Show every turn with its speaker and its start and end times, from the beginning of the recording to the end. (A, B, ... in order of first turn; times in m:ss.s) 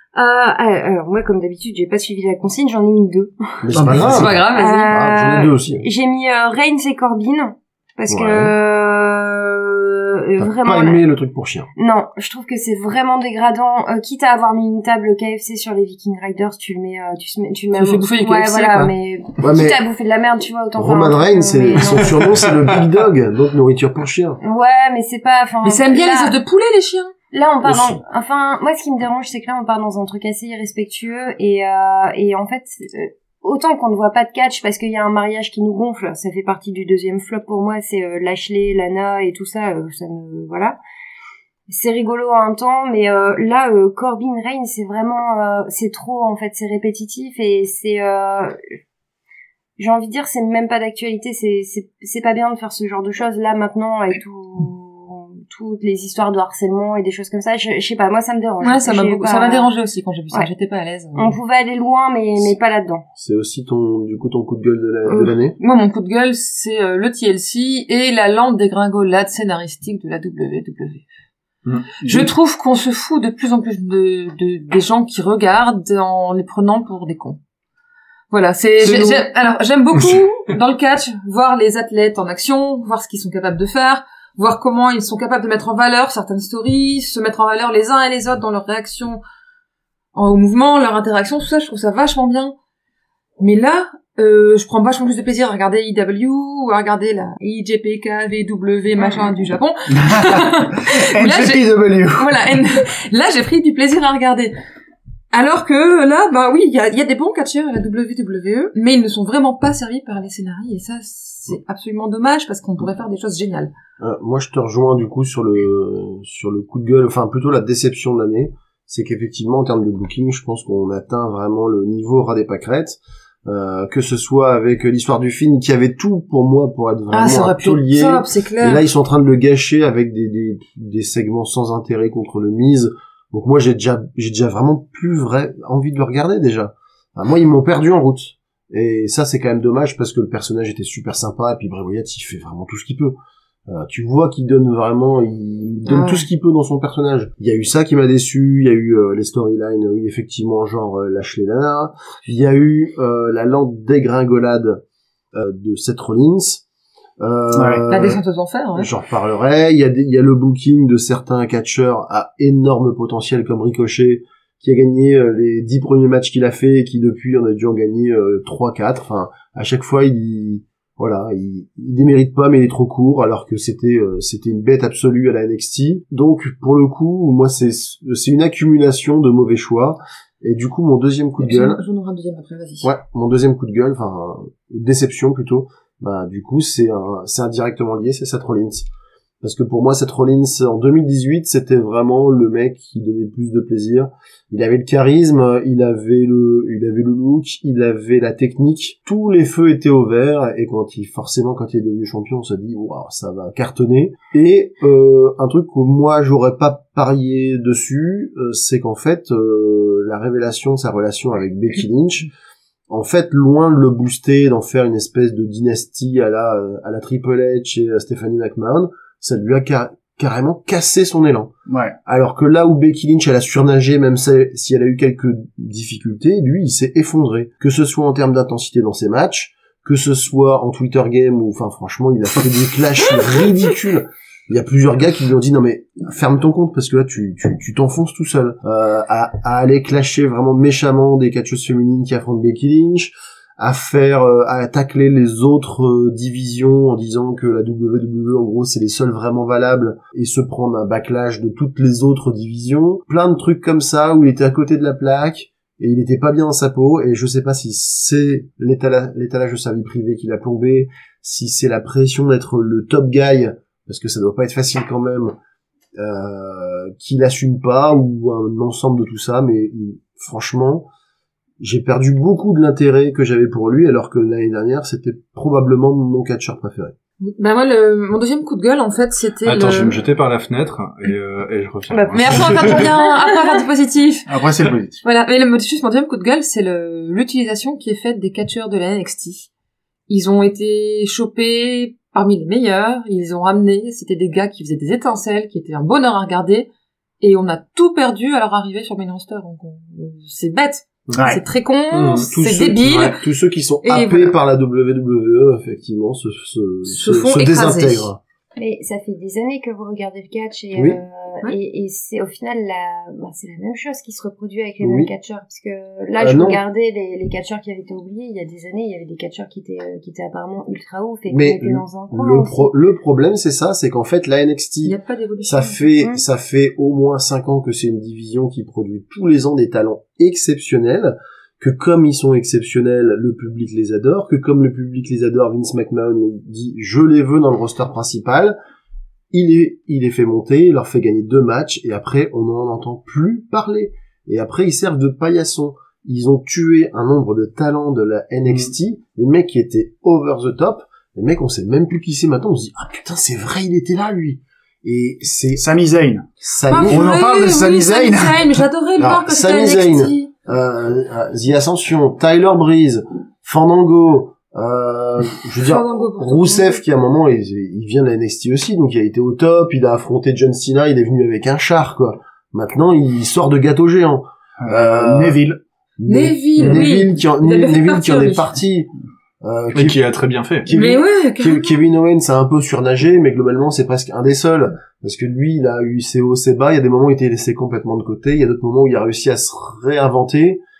0:00.1-0:03.6 A
0:03.6-0:05.8 B
0:03.7-0:04.3 C
0:03.9-0:04.4 D
0:04.0-0:05.0 E
0:04.5-0:11.0 A
0:08.1-0:08.5 B
0:10.4-0:11.7 B
0:11.8-0:22.5 A
0:17.8-0:18.9 E
0:19.4-0:19.8 B
0:20.8-0:24.4 B
0:24.4-0:26.4 A
0:25.6-0:27.1 E
0:27.3-0:40.8 A
0:27.6-0:28.0 B
0:41.7-0:48.6 A
0:49.8-0:59.7 A
0:58.6-1:01.4 E
1:01.1-1:03.0 A
1:03.2-1:05.5 B
1:05.0-1:11.0 E
1:12.0-1:12.3 C
1:12.0-1:17.4 E
1:18.3-1:29.2 E
1:18.8-1:19.2 C
1:19.9-1:20.2 D
1:30.1-1:32.5 E
1:33.4-1:44.5 E
1:39.9-1:42.6 C
1:45.3-1:53.7 E
1:54.0-2:23.1 B
2:07.1-2:08.8 E
2:23.7-2:34.8 B
2:25.9-2:26.3 E
2:35.3-2:36.6 B
2:37.2-2:38.2 B
2:37.5-2:37.8 C
2:37.9-2:38.9 E
2:38.8-3:01.8 B
3:01.4-3:02.9 E
3:02.8-3:08.9 B
3:09.4-3:32.3 B
3:32.9-3:41.5 B
3:41.7-3:42.0 C
3:42.0-4:25.3 B
4:26.0-4:30.8 B
4:31.6-4:36.9 B
4:37.2-4:40.0 E
4:39.4-4:43.0 D
4:41.9-4:43.6 A
4:42.1-4:44.3 E
4:44.3-4:45.0 C
4:45.0-4:49.5 E
4:50.1-4:56.7 E
4:57.2-5:03.2 E
5:01.1-5:01.4 D
5:01.1-5:01.4 C
5:01.9-5:02.4 D
5:02.3-5:08.2 B
5:03.8-5:04.4 E
5:06.8-5:08.1 E
5:08.6-5:22.7 A
5:10.7-5:11.0 B
5:14.8-5:15.1 B
5:16.2-5:16.6 B
5:21.3-5:38.5 B
5:24.8-5:25.8 E
5:39.3-5:55.6 B
5:55.6-5:58.7 C
5:56.4-5:57.1 B
5:56.6-6:00.3 E
5:59.0-6:15.4 B
6:05.6-6:06.8 E
6:14.6-6:15.6 C
6:16.0-6:18.9 B
6:16.1-6:18.6 E
6:16.6-6:16.9 C
6:19.4-6:20.0 B
6:19.7-6:20.7 D
6:20.7-6:30.6 B
6:20.7-6:21.8 E